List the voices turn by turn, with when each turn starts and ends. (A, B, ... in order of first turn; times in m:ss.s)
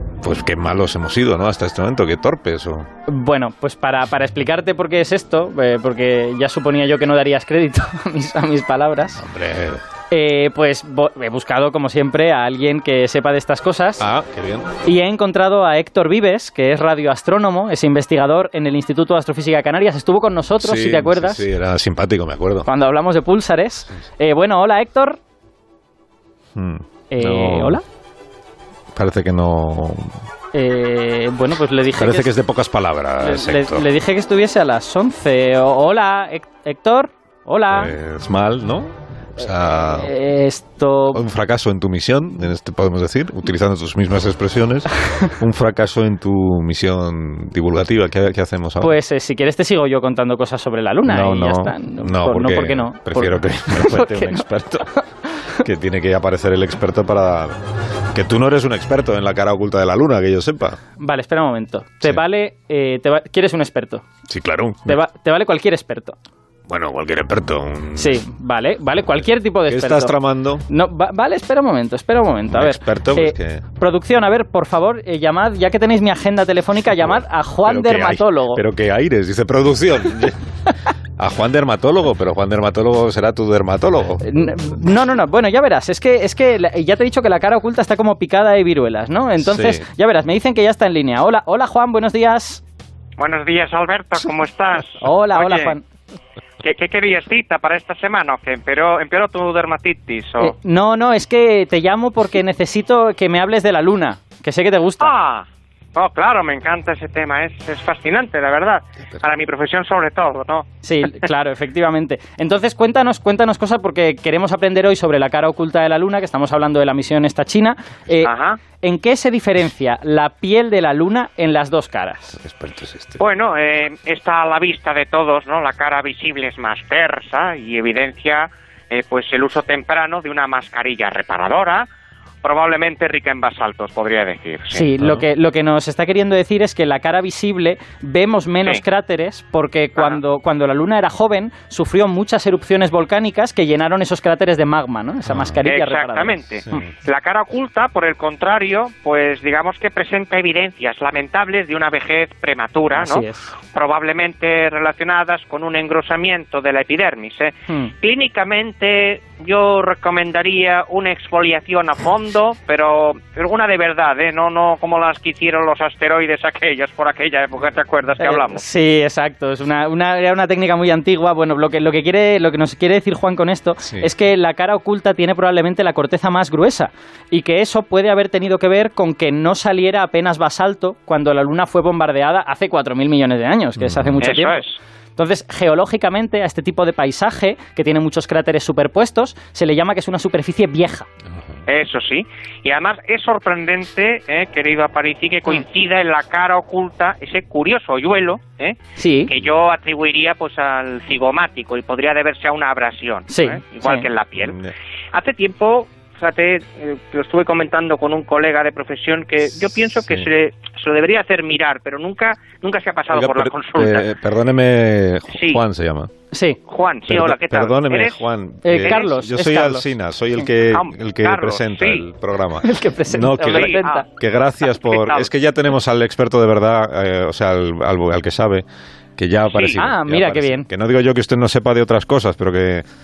0:00.2-0:02.9 A
0:03.1-0:09.2 B
0:09.2-0:09.8 A
0:10.1-0:14.0 B
0:14.0-0:14.7 A
0:14.8-0:21.4 B
0:20.6-0:22.7 A
0:22.6-0:25.2 B
0:26.5-0:27.8 A
0:27.1-0:27.8 B
0:28.9-0:30.1 A
0:30.5-0:32.3 B
0:31.9-0:33.9 A
0:33.2-0:38.0 B
0:37.7-0:40.1 A
0:39.9-0:41.2 B
0:41.1-0:49.0 A
0:48.8-0:55.0 B
0:51.0-0:54.9 A
0:55.6-0:57.6 A
0:58.1-1:00.8 A
1:01.0-1:04.0 B
1:04.3-1:05.0 A
1:04.8-1:06.2 B
1:06.7-1:08.2 A
1:08.0-1:10.1 B
1:09.7-1:10.6 A
1:10.7-1:18.6 B
1:12.5-1:13.6 A
1:17.0-1:20.4 A
1:21.2-1:24.2 A
1:24.2-1:32.6 B
1:29.4-1:29.8 A
1:33.2-1:35.8 C
1:35.0-1:35.8 B
1:36.6-1:40.5 C
1:40.4-1:45.1 B
1:45.0-1:50.7 C
1:50.8-2:02.4 B
1:58.2-1:58.6 C
2:02.4-2:03.2 A
2:03.2-2:11.9 C
2:12.4-2:14.8 C
2:14.7-2:26.9 B
2:15.0-2:15.2 A
2:25.2-2:25.6 A
2:25.6-2:48.6 C
2:32.9-2:33.5 B
2:37.7-2:37.9 B
2:48.2-3:04.6 B
2:53.8-2:54.1 A
3:03.8-3:04.2 A
3:04.2-3:04.8 C
3:05.2-3:11.1 B
3:11.7-3:18.8 C
3:19.0-3:19.3 B
3:19.3-3:24.6 C
3:23.3-3:24.1 B
3:24.4-3:24.7 A
3:25.1-3:34.1 C
3:33.1-3:36.1 A
3:35.4-3:35.6 C
3:36.3-3:36.6 B
3:36.7-3:39.0 C
3:37.1-3:48.6 A
3:38.6-3:39.9 B
3:40.7-3:42.0 C
3:42.6-3:44.0 B
3:43.4-3:44.1 C
3:44.7-3:45.3 C
3:49.2-3:52.8 A
3:49.5-3:50.7 B